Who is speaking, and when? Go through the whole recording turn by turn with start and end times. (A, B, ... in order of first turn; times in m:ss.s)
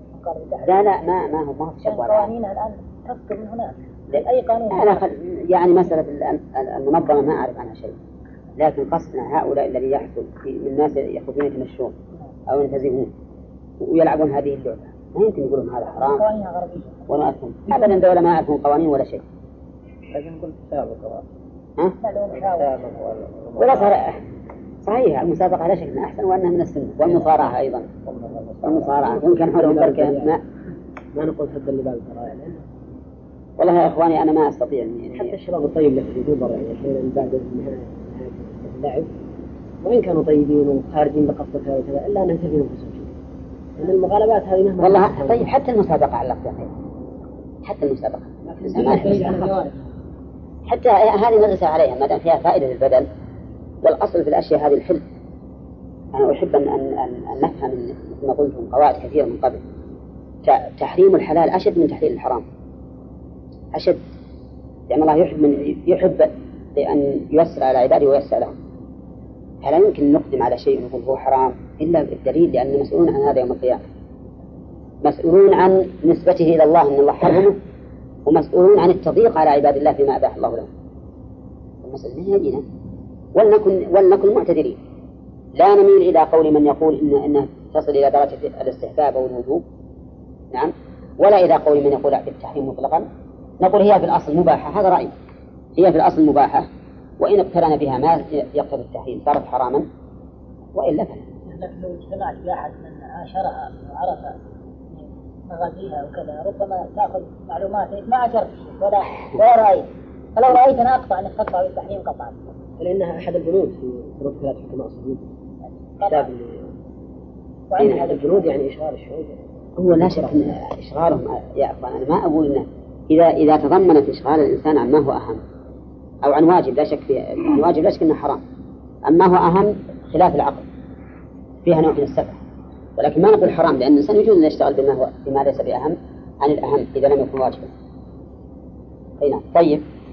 0:00.2-0:00.9 A
0:00.6-0:02.3 B
0:01.8-0:05.0 A
0:04.1-0:08.0 B
0:08.6-0:12.0 B
0:12.5-0:13.1 B
0:13.8-0:16.2 B
0:15.9-0:17.1 A
0:17.1-0:19.2 B
0:20.1-0:21.3 C
0:22.0-0:23.0 A
0:22.3-0:24.0 C
0:23.6-0:24.2 B
0:24.8-0:27.9 B
0:28.1-0:28.8 C
0:28.6-0:30.4 B
0:28.7-0:30.4 D
0:31.1-0:32.6 D
0:33.6-0:35.3 B
0:35.1-0:39.1 D
0:39.8-0:43.2 D
0:43.8-0:45.5 D
0:44.8-0:46.7 B
0:47.6-0:49.3 B
0:48.5-0:49.7 D
0:48.7-0:49.7 A
0:50.7-0:53.1 B
0:53.8-0:55.0 B
0:56.1-0:59.6 B
1:00.4-1:02.4 B
1:03.7-1:04.0 B
1:04.9-1:08.6 B
1:09.6-1:13.8 B
1:15.0-1:17.6 B
1:18.3-1:20.7 B
1:21.8-1:22.6 B
1:23.4-1:24.8 B
1:25.6-1:29.6 B
1:30.5-1:33.1 B
1:33.6-1:35.1 B
1:35.8-1:36.7 B
1:37.2-1:39.9 B
1:40.7-1:41.2 B
1:41.5-1:44.4 A
1:45.5-1:52.4 A
1:52.8-1:55.2 D
1:56.0-1:56.3 A
1:56.1-1:56.7 D
1:57.7-1:58.4 A
1:57.8-2:00.4 D
2:00.0-2:05.4 B
2:06.2-2:08.4 B
2:09.0-2:10.7 B
2:11.6-2:12.4 B
2:13.0-2:17.7 B
2:19.2-2:19.8 B